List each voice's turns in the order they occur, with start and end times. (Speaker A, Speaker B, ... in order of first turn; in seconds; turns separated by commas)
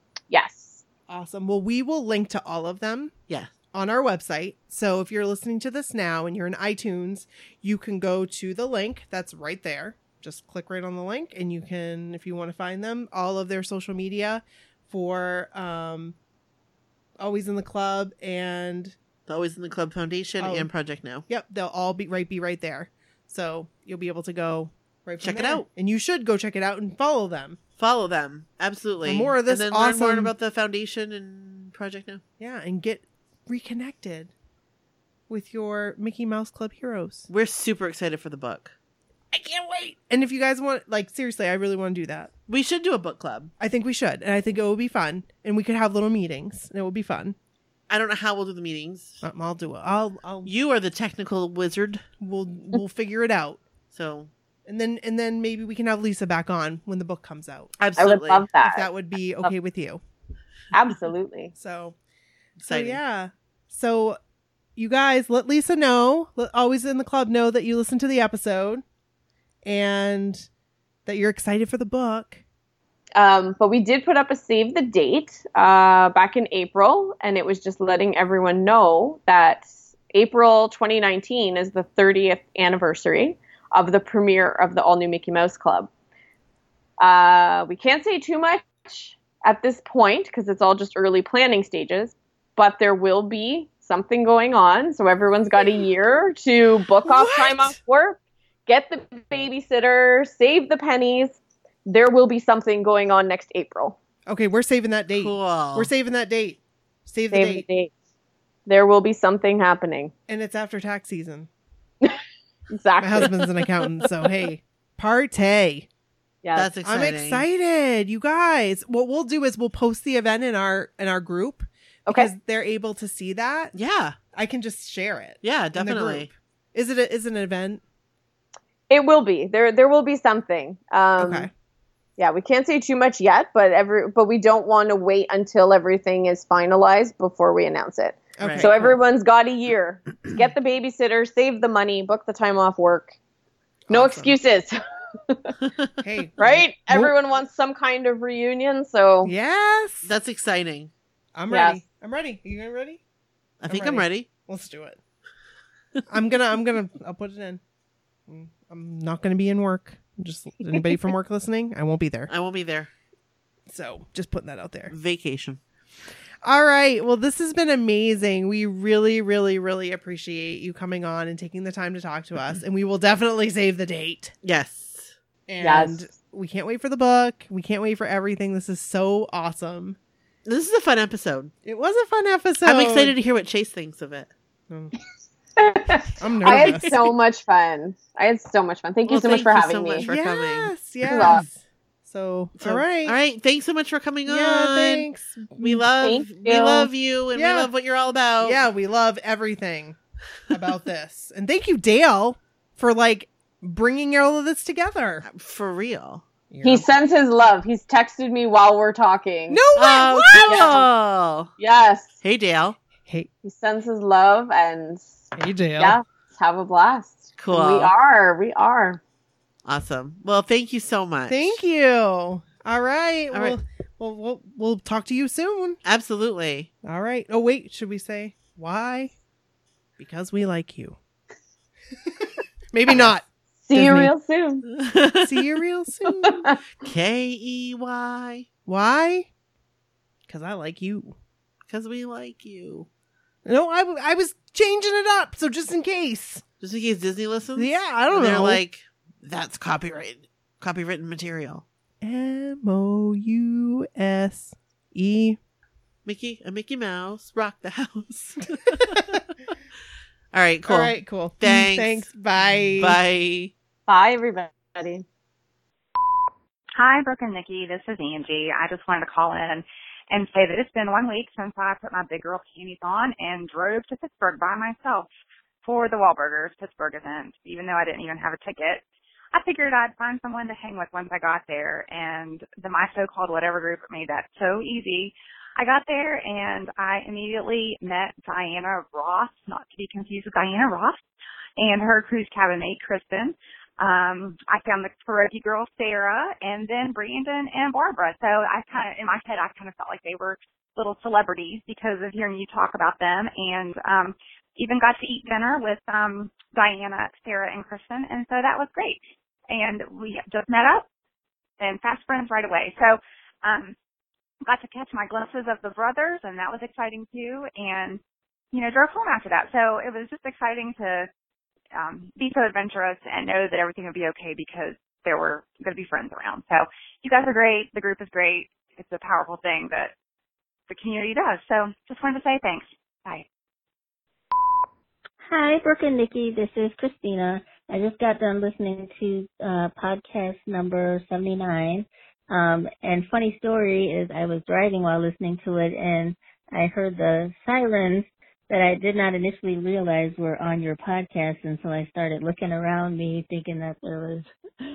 Speaker A: 0.3-0.8, Speaker B: 1.1-3.1, Speaker B: 3.7-16.2, Speaker B: 17.2-19.0, Speaker C: 19.3-21.2, Speaker B: 20.4-20.7, Speaker B: 21.3-27.6, Speaker C: 25.2-25.7, Speaker C: 27.8-32.2, Speaker B: 29.1-30.3, Speaker B: 32.4-34.3, Speaker B: 35.3-37.3, Speaker C: 37.3-38.8, Speaker B: 39.3-42.3, Speaker C: 42.5-43.5, Speaker B: 43.6-47.4, Speaker C: 47.9-49.2, Speaker B: 49.2-50.5, Speaker C: 50.5-52.0, Speaker B: 52.2-53.6, Speaker C: 53.9-54.3, Speaker B: 54.6-57.7, Speaker C: 57.8-58.5, Speaker A: 58.0-58.9, Speaker B: 58.6-60.0, Speaker A: 60.7-61.5, Speaker B: 61.6-62.0, Speaker C: 62.6-63.0, Speaker B: 62.7-64.2, Speaker B: 64.8-68.8, Speaker B: 69.7-70.5, Speaker B: 71.1-72.4, Speaker A: 73.2-85.9, Speaker A: 87.0-104.0, Speaker B: 95.6-95.8, Speaker B: 97.0-97.8, Speaker B: 104.3-107.7, Speaker C: 105.2-105.9, Speaker A: 107.3-107.9, Speaker A: 108.7-110.1, Speaker B: 110.3-111.5, Speaker A: 112.7-113.5, Speaker B: 113.0-115.9, Speaker A: 116.4-116.7, Speaker C: 116.5-117.5, Speaker B: 116.8-123.7, Speaker C: 123.7-124.2, Speaker B: 124.3-127.8, Speaker C: 125.4-126.3, Speaker A: 128.9-131.5, Speaker B: 131.2-131.5, Speaker A: 132.2-143.1, Speaker B: 138.4-139.0, Speaker C: 138.4-138.7, Speaker B: 143.9-144.3, Speaker A: 143.9-145.6, Speaker B: 146.0-147.1, Speaker A: 146.4-149.3, Speaker B: 149.2-150.1, Speaker C: 150.0-150.9, Speaker B: 151.3-153.0, Speaker A: 151.5-151.8, Speaker C: 153.6-154.3, Speaker B: 153.7-155.0, Speaker B: 156.1-157.6, Speaker B: 158.3-162.3, Speaker C: 162.3-162.9, Speaker B: 163.7-164.9, Speaker C: 164.9-165.6, Speaker B: 166.4-174.3, Speaker C: 174.4-175.2, Speaker B: 175.5-180.0, Speaker A: 175.6-176.1, Speaker C: 180.4-181.5, Speaker B: 181.6-183.2, Speaker C: 182.6-184.3, Speaker A: 185.6-190.1, Speaker B: 186.2-187.0, Speaker C: 186.5-186.9, Speaker C: 189.1-191.3, Speaker B: 190.0-193.2, Speaker A: 191.1-191.4, Speaker C: 192.6-198.6, Speaker B: 194.3-195.9, Speaker A: 196.0-196.9, Speaker B: 197.3-197.7, Speaker B: 198.4-200.0, Speaker B: 200.5-205.3, Speaker C: 205.2-206.3, Speaker B: 206.5-206.9, Speaker A: 206.6-209.6, Speaker B: 209.5-210.8, Speaker C: 209.8-211.5, Speaker A: 210.4-210.9, Speaker A: 211.6-212.2, Speaker C: 212.2-212.8, Speaker A: 213.4-215.2, Speaker B: 215.4-216.0, Speaker A: 215.8-219.0, Speaker C: 217.4-217.9, Speaker C: 219.7-221.6, Speaker B: 221.3-225.8, Speaker C: 223.3-223.6, Speaker C: 225.8-226.7, Speaker B: 226.8-229.1, Speaker B: 230.0-231.0, Speaker B: 232.2-234.1, Speaker C: 232.9-233.1, Speaker A: 233.7-234.7, Speaker C: 234.7-235.6, Speaker B: 235.2-236.5, Speaker A: 236.2-236.6, Speaker C: 236.8-238.5, Speaker B: 238.7-239.3, Speaker B: 240.3-241.2, Speaker C: 241.7-242.9, Speaker B: 243.4-246.4, Speaker C: 246.6-251.7, Speaker B: 247.6-248.6, Speaker B: 252.0-255.4, Speaker C: 256.1-259.1, Speaker B: 258.8-259.2, Speaker C: 260.3-262.1, Speaker B: 260.7-263.0, Speaker C: 262.8-263.5, Speaker A: 263.9-265.1, Speaker D: 266.8-275.1, Speaker D: 275.6-291.0, Speaker D: 291.6-310.9, Speaker D: 311.6-313.8, Speaker D: 314.4-318.0, Speaker D: 318.5-321.1, Speaker D: 321.8-329.9, Speaker D: 330.7-333.3, Speaker E: 335.2-354.3